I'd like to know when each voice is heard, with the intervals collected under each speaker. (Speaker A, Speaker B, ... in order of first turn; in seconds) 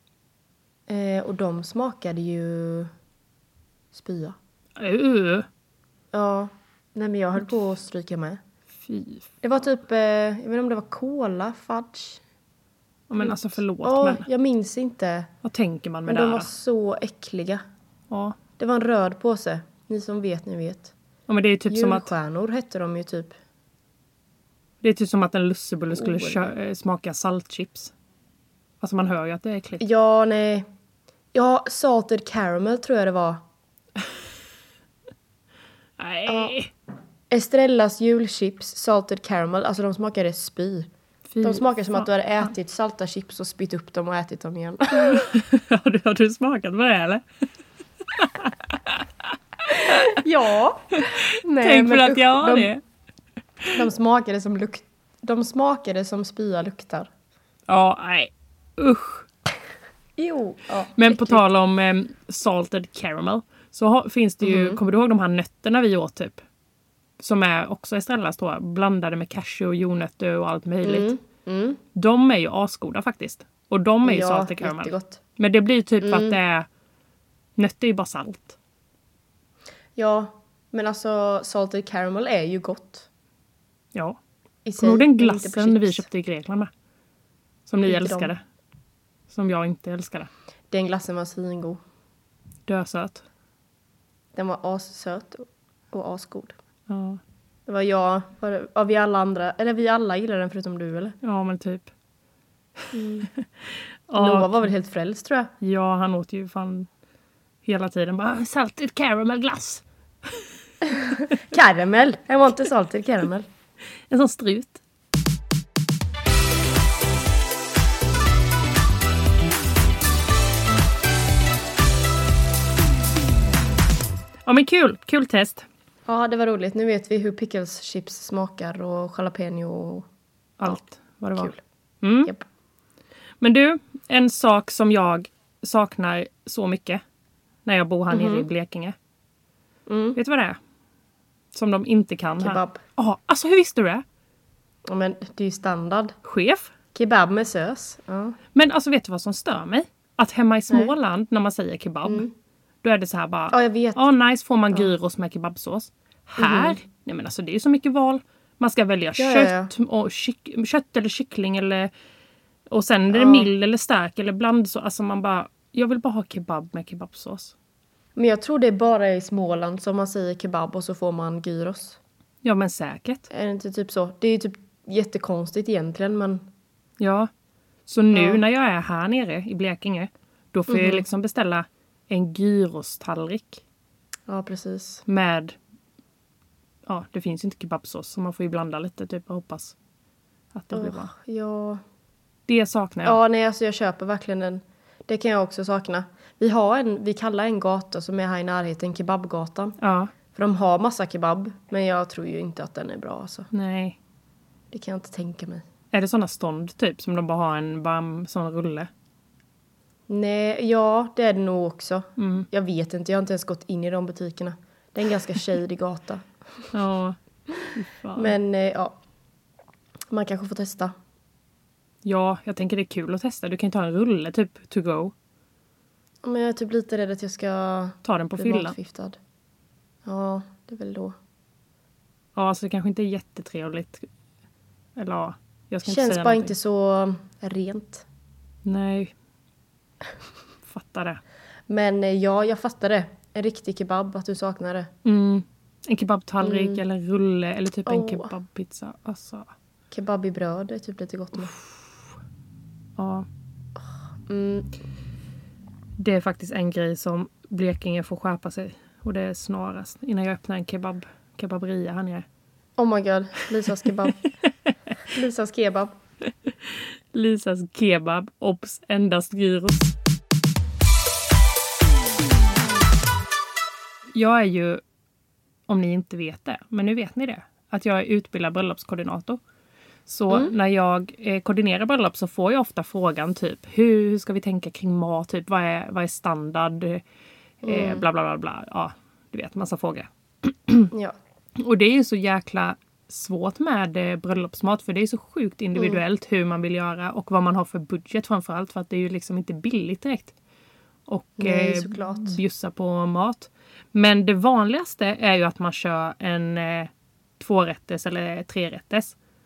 Speaker A: 0.9-2.9, 3.9-4.4, 6.1-8.4, 9.4-12.2, 13.2-15.3, 16.1-17.6, 18.6-20.9, 21.7-23.4, 25.9-26.5, 29.8-30.7, 31.3-33.4, 36.3-36.5, 37.3-40.9, 41.4-45.2, 49.7-52.7, 53.7-57.1, 60.2-61.5, 64.4-64.8, 70.8-71.8, 74.0-75.2, 76.0-76.4, 80.0-83.1, 84.7-86.1, 87.8-88.3, 90.7-91.8, 94.3-96.6, 97.7-101.2, 102.9-103.3, 104.2-105.5, 110.8-113.5, 126.1-130.1, 138.1-138.5, 139.9-140.2, 142.4-142.8, 144.9-146.2, 146.9-148.4, 152.1-152.3, 153.5-154.0, 156.4-156.8, 159.2-159.7, 163.1-163.5, 168.2-172.0, 173.3-176.4, 178.1-178.4, 180.7-181.1, 184.3-185.0, 190.7-191.8, 193.0-199.8, 200.3-203.5, 204.7-205.7, 210.1-216.7, 218.2-219.0, 220.1-220.9, 226.2-229.2, 230.1-231.2, 235.8-238.1, 241.7-244.9, 246.4-246.8, 247.9-248.3, 249.9-251.6, 254.3-254.7, 262.8-264.3, 265.1-265.9, 287.6-288.0, 301.4-302.4
Speaker B: 4.8-5.5, 8.8-9.3, 13.1-14.3, 15.4-16.5, 18.1-18.4, 21.3-22.1, 24.8-27.9, 28.8-29.8, 36.0-36.7, 41.3-42.5, 44.9-47.2, 48.1-49.0, 49.7-50.2, 51.0-52.8, 57.7-59.2, 61.0-66.4, 67.2-71.1, 72.0-76.7, 77.6-78.6, 84.8-86.7, 87.7-88.4, 89.3-90.3, 92.7-93.2, 96.9-97.2, 101.2-101.9, 103.4-104.7, 105.6-106.9, 107.7-110.4, 114.1-114.8, 124.5-125.7, 130.6-132.3, 133.4-137.0, 137.7-138.9, 140.2-140.6, 141.5-144.0, 146.2-146.7, 148.5-152.3, 152.8-161.9, 162.7-167.5, 172.4-173.3, 177.0-177.3, 177.9-183.6, 185.1-185.6, 186.9-189.8, 190.5-191.1, 192.5-193.2, 199.8-200.1, 203.5-204.0, 205.9-208.9, 212.2-212.5, 216.7-217.2, 217.7-218.4, 222.0-225.1, 228.1-228.8, 232.3-234.1, 235.0-236.5, 238.7-239.1, 240.7-241.2, 245.1-249.5, 253.0-253.3, 256.0-262.2, 266.5-269.9, 274.1-274.8, 275.7-279.4, 280.1-287.0, 287.6-290.9, 291.6-300.3, 301.1-309.1